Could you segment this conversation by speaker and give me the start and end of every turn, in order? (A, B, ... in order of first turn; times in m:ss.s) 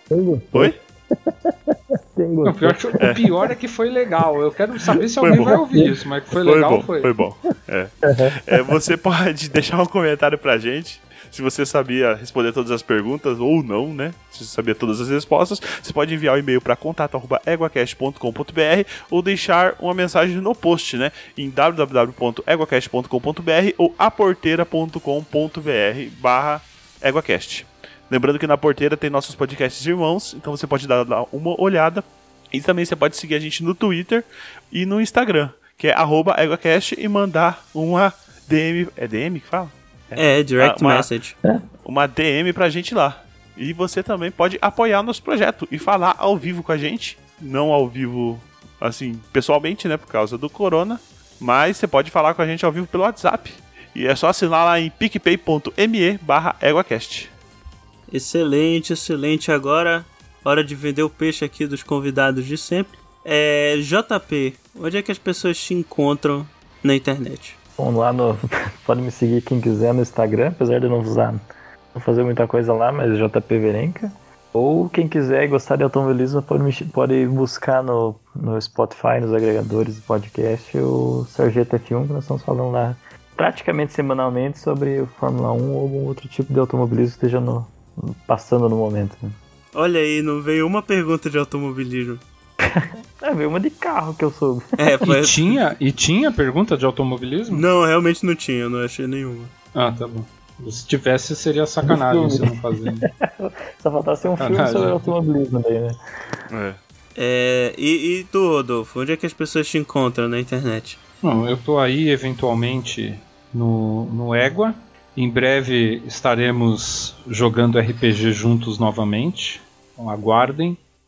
0:00.1-0:03.3 A
0:02.4-0:07.1 B
0:03.0-0:03.3 C
0:05.2-0:05.6 C
0:05.3-0:06.0 A
0:06.3-0:41.1 C
0:08.0-0:08.7 A
0:40.2-0:41.4 D
0:41.8-0:57.3 C
0:58.1-1:07.6 D
1:07.8-1:11.4 A
1:11.9-1:29.4 A
1:29.7-1:32.2 D
1:32.6-1:34.7 A
1:34.8-1:35.6 D
1:35.0-1:37.7 B
1:37.5-1:39.5 D
1:39.8-1:43.1 B
1:41.8-1:46.0 A
1:44.4-1:45.1 B
1:46.5-1:46.8 C
1:47.2-1:51.0 D
1:51.2-2:00.8 B